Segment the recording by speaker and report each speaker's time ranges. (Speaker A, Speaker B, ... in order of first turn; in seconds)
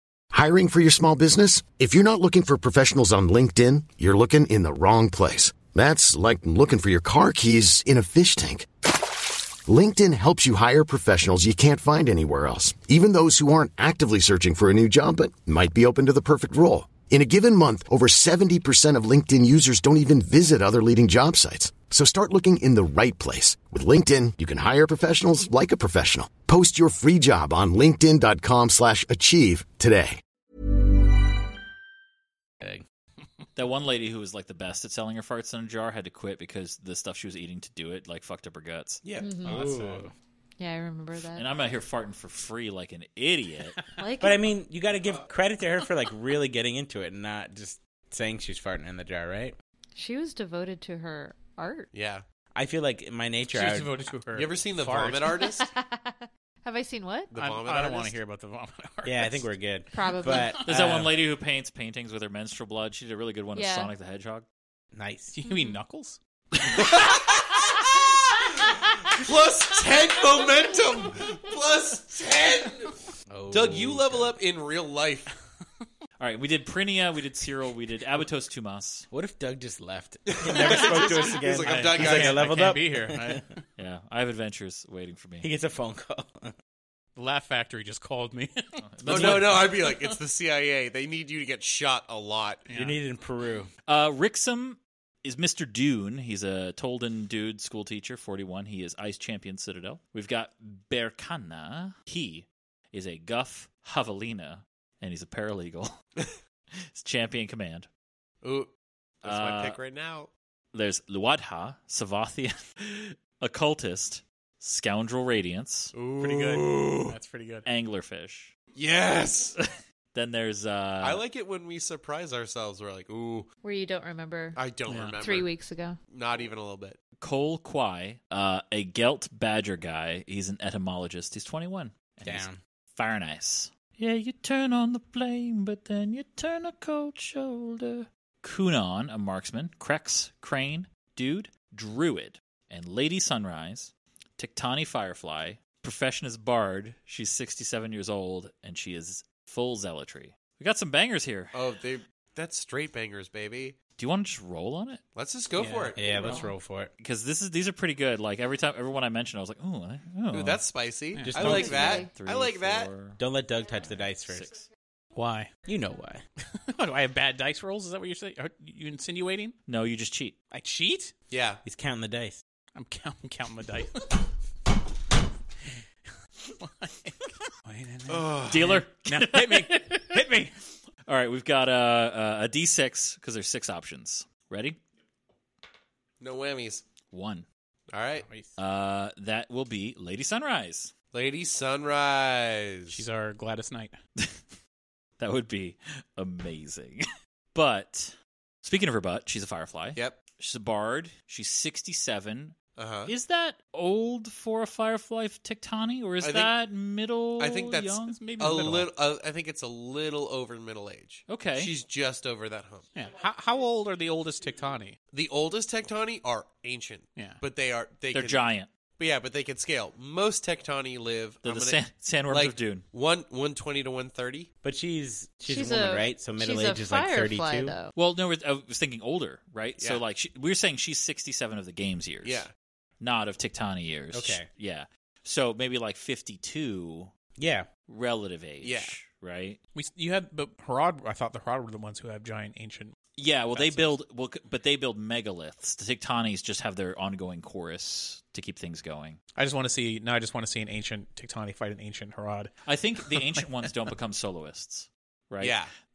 Speaker A: 0.3-8.7, 9.6-30.2
Speaker B: 33.5-39.0, 41.3-43.8, 60.6-64.5, 76.2-79.1, 83.8-85.5, 88.8-89.7, 93.9-106.0, 106.9-107.9, 109.2-109.8, 110.7-115.9, 117.6-118.5, 120.1-121.2, 127.2-151.6, 154.0-155.0, 157.0-160.6, 161.4-163.2, 163.8-164.6, 169.7-170.3, 178.5-180.2, 181.1-184.8, 187.1-187.4, 188.6-190.9, 195.2-197.0, 197.5-202.5, 203.1-208.7, 211.3-211.7, 218.1-218.7, 221.4-222.8, 227.9-232.5, 233.0-237.1, 237.9-239.6, 243.2-249.2, 252.6-255.6
Speaker C: 39.1-40.0, 51.9-52.2, 54.3-55.7, 57.3-58.1, 66.7-67.8, 69.1-73.0, 73.5-75.3, 80.3-82.5, 89.0-92.6, 108.4-108.7, 109.2-110.3, 115.9-117.2, 118.7-119.5, 121.0-123.5, 124.5-125.5, 126.1-127.0, 151.5-153.8, 155.1-156.5, 160.3-162.9, 171.3-171.6, 178.1-178.8, 186.2-186.8, 187.9-188.2, 191.1-193.0, 202.8-203.1, 206.2-206.5, 207.4-212.8, 215.1-218.4, 219.0-224.5, 229.8-230.0, 232.2-232.5, 238.6-238.9, 255.4-255.7
Speaker D: 39.1-40.1, 44.2-49.5, 52.5-54.1, 59.0-61.1, 64.9-65.3, 73.3-74.4, 79.1-83.5, 85.4-86.5, 92.7-93.7, 132.2-132.6, 155.9-156.9, 161.2-162.0, 163.2-164.6, 165.7-166.2, 171.6-172.4, 224.6-227.7, 234.1-234.5, 237.4-237.7
Speaker E: 39.2-39.6, 40.6-41.4, 44.0-44.5, 49.9-51.9, 55.4-57.3, 59.9-60.6, 63.5-63.9, 65.5-65.8, 123.6-124.6, 125.2-126.0, 161.5-162.1, 225.4-227.9
Speaker F: 53.5-55.4, 57.4-59.5, 60.2-60.6, 65.3-66.2, 80.5-83.6, 87.2-90.1, 92.7-93.0, 116.2-117.7, 124.9-125.2, 155.5-156.4, 161.1-161.5, 165.1-165.5, 166.7-169.5, 170.5-171.1, 172.7-174.2, 176.6-180.5, 192.9-193.9, 208.1-208.9, 212.9-215.0, 217.2-217.4, 239.7-242.9, 243.5-243.9, 249.3-253.9